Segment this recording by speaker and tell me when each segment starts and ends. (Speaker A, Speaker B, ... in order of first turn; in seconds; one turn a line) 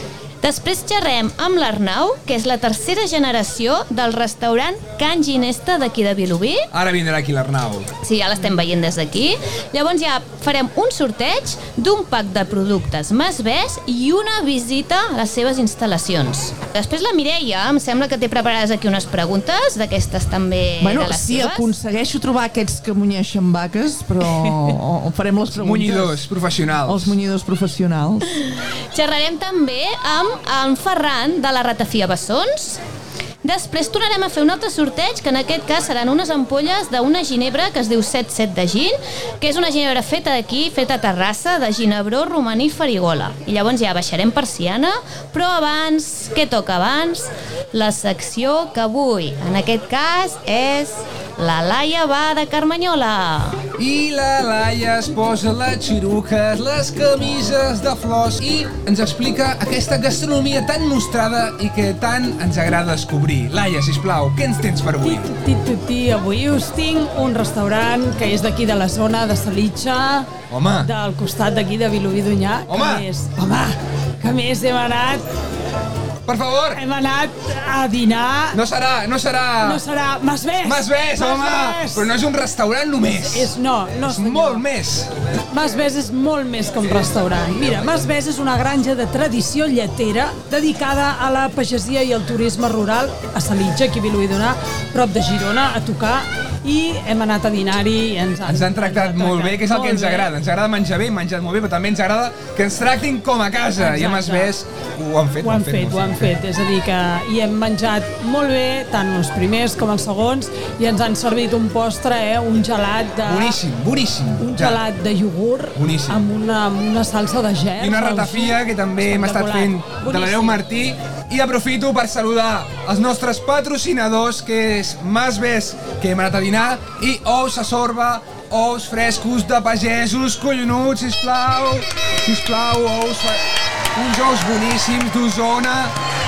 Speaker A: 0.4-6.7
Speaker B: 6.7-7.9
Speaker A: 8.0-21.7
Speaker C: 20.8-26.3
Speaker B: 25.5-27.2
Speaker C: 26.8-28.4
Speaker A: 28.3-32.8
Speaker A: 33.4-53.6
Speaker B: 53.8-65.3
Speaker D: 65.0-75.2
Speaker B: 70.5-70.9
Speaker B: 72.7-73.0
Speaker B: 76.3-76.8
Speaker D: 76.7-78.6
Speaker B: 78.5-79.8
Speaker D: 79.6-82.1
Speaker B: 80.6-83.5
Speaker D: 83.1-84.7
Speaker B: 84.0-85.1
Speaker D: 85.5-100.3
Speaker B: 86.8-88.1
Speaker B: 98.4-106.3
Speaker D: 103.8-104.5
Speaker D: 105.4-113.6
Speaker B: 113.2-114.8
Speaker D: 114.4-120.6
Speaker B: 115.8-116.2
Speaker B: 117.8-133.4
Speaker B: 133.9-135.9